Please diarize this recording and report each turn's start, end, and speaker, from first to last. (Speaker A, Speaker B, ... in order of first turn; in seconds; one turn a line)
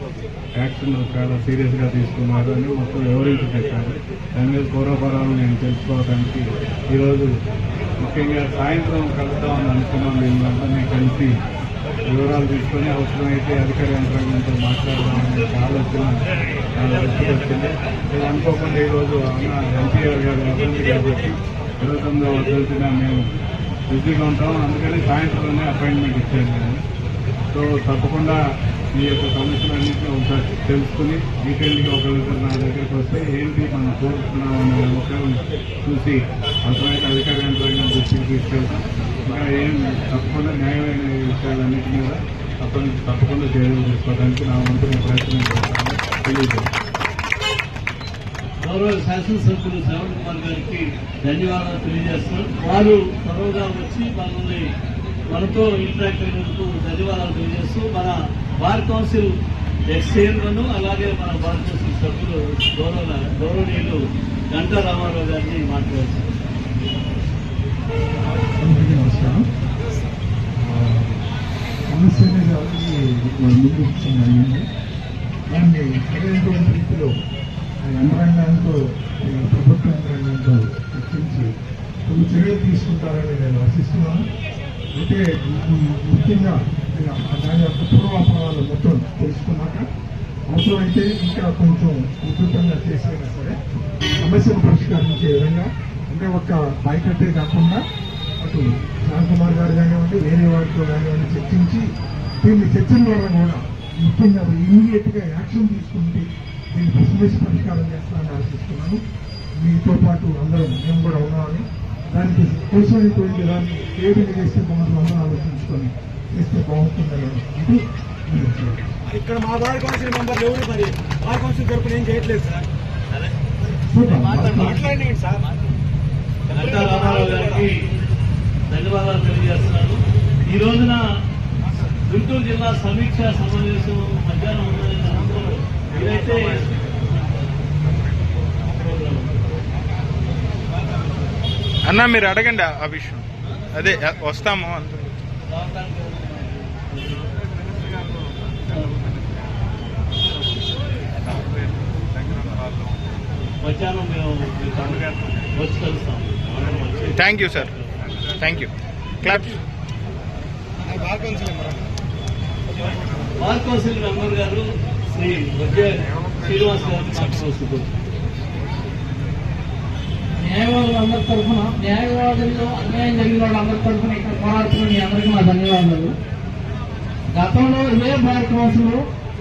Speaker A: 0.6-7.3
Speaker A: 8.0-11.3
Speaker A: 12.1-16.1
Speaker A: 16.8-23.3
Speaker A: 23.9-26.8
Speaker A: 27.5-28.4
Speaker A: 28.9-46.7
Speaker B: 48.6-54.7
Speaker B: 55.3-59.3
Speaker B: 59.9-64.0
Speaker B: 64.5-66.3
Speaker C: 68.6-69.4
Speaker C: 70.6-71.2
Speaker C: 71.9-74.7
Speaker C: 75.5-77.1
Speaker C: 77.8-81.5
Speaker C: 82.1-84.2
Speaker C: 85.0-89.8
Speaker C: 90.5-93.6
Speaker C: 94.2-97.8
Speaker C: 98.4-101.8
Speaker C: 102.4-109.0
Speaker C: 109.6-118.8
Speaker D: 119.1-122.6
Speaker C: 123.8-124.9
Speaker D: 124.6-125.4
Speaker B: 126.5-127.7
Speaker B: 128.7-131.0
Speaker B: 132.1-137.4
Speaker B: 138.7-139.3
Speaker E: 141.8-145.0
Speaker B: 145.5-147.3
Speaker B: 153.6-157.8
Speaker E: 157.1-157.7
Speaker E: 158.4-158.7
Speaker E: 159.2-159.5
Speaker D: 161.1-161.6
Speaker B: 163.3-167.9
Speaker F: 170.4-176.1
Speaker F: 177.3-179.0